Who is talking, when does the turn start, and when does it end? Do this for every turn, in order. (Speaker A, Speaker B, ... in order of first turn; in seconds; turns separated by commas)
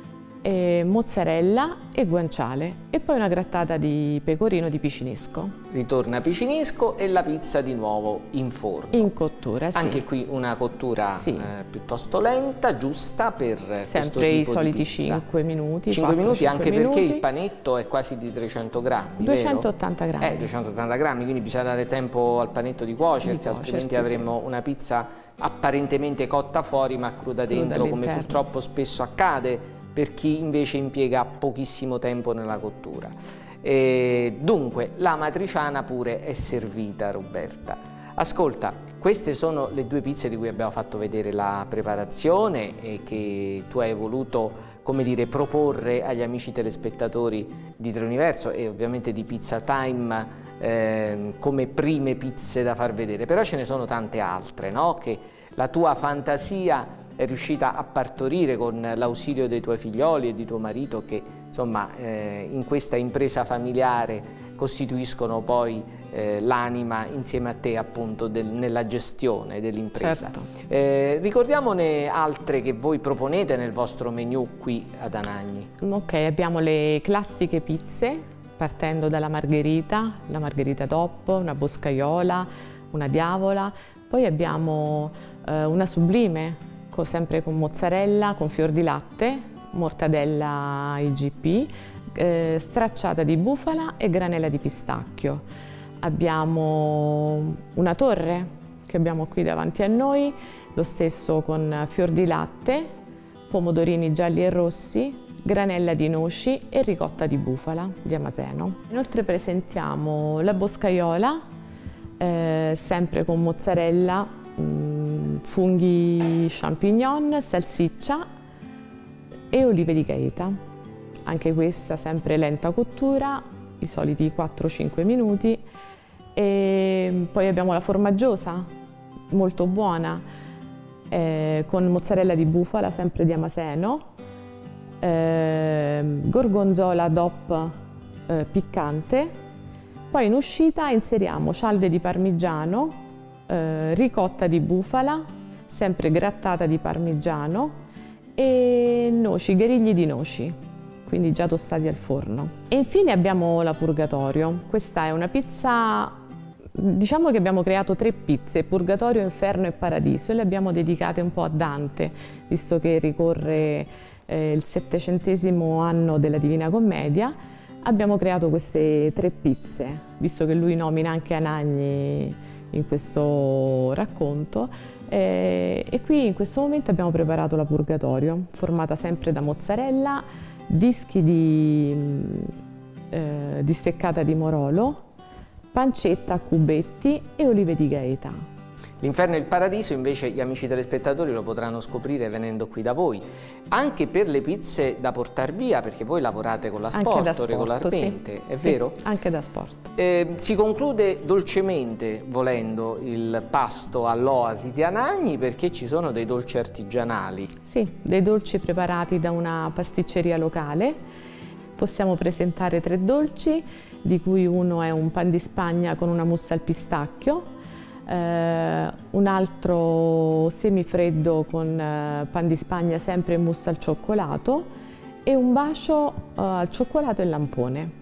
Speaker A: 0.4-5.5, Speaker B: 5.7-9.1, Speaker A: 8.9-10.0, Speaker B: 9.8-15.2, Speaker A: 11.1-11.5, Speaker A: 13.8-17.2, Speaker B: 15.9-19.7, Speaker A: 19.2-20.5, Speaker B: 20.2-75.7, Speaker A: 23.2-24.3, Speaker A: 27.4-28.5, Speaker A: 70.0-70.5, Speaker A: 75.8-95.4, Speaker A: 96.0-102.9, Speaker A: 103.5-111.4, Speaker A: 112.2-118.2, Speaker A: 119.5-120.6, Speaker A: 121.3-125.6, Speaker A: 126.3-128.7, Speaker A: 129.3-130.2, Speaker A: 131.1-134.1, Speaker A: 135.0-137.7, Speaker A: 138.3-139.3, Speaker A: 140.1-147.8, Speaker A: 148.4-156.2, Speaker A: 156.8-182.5, Speaker A: 183.1-185.0, Speaker A: 185.7-188.4, Speaker B: 189.0-199.0, Speaker A: 196.9-199.9, Speaker B: 200.0-207.5, Speaker A: 207.7-211.0, Speaker A: 211.8-217.5, Speaker A: 218.1-224.7, Speaker A: 225.2-227.9